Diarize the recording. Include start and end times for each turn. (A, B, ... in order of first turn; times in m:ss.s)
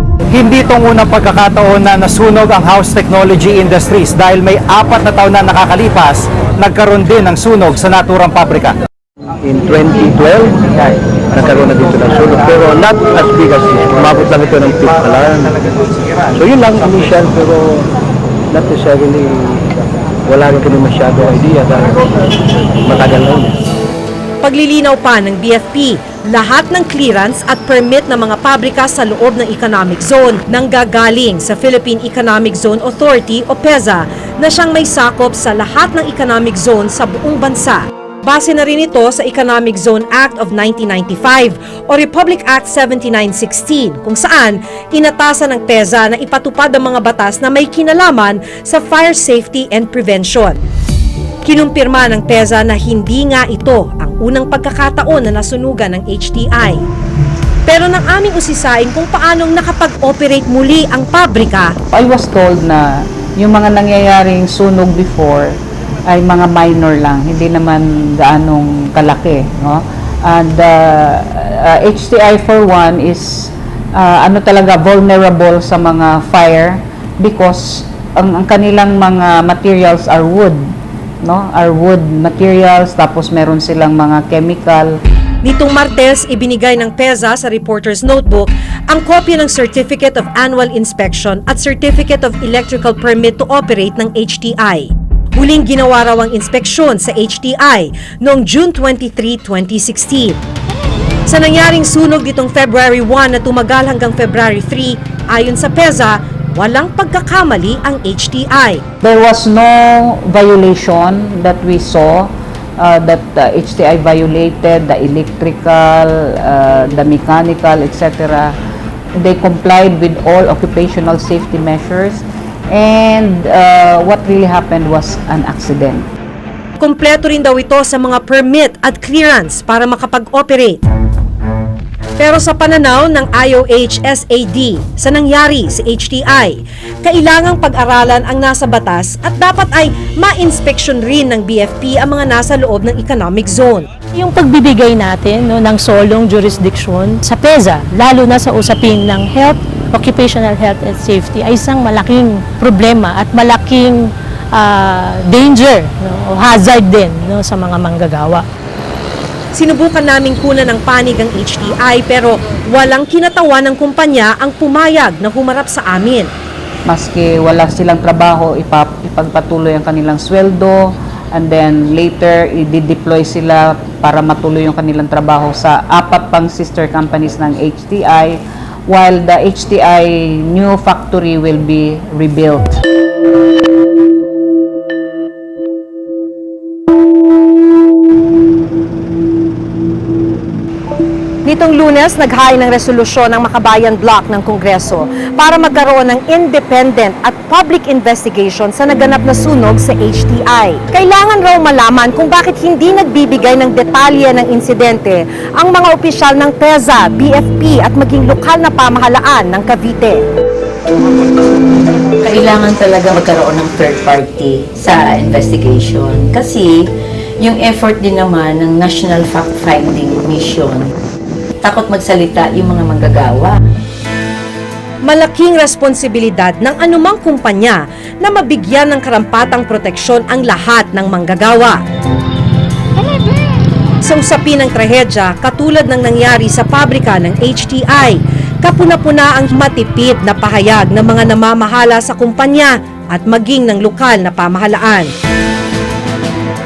0:00.3-0:08.8 A
0:09.4-0:17.9 B
0:18.5-0:22.1 B
0:22.8-0:23.6 B
0:24.4-0:50.6 C
0:51.4-0:56.8 C
0:57.7-1:01.8 C
1:01.9-1:05.5 D
1:06.1-1:20.6 D
1:21.2-1:24.9 D
1:25.4-1:40.4 C
1:41.3-1:48.8 C
1:49.0-1:58.5 D
1:59.2-2:06.1 D
2:06.8-2:10.8 C
2:12.2-2:23.9 C
2:24.1-2:38.4 E
2:39.5-2:46.3 C
2:46.9-3:02.8 D
3:11.4-3:30.2 C
3:32.2-3:36.9 F
3:37.4-3:40.9 F
3:41.6-3:43.6 F
3:45.0-3:51.8 C
3:54.0-4:05.1 C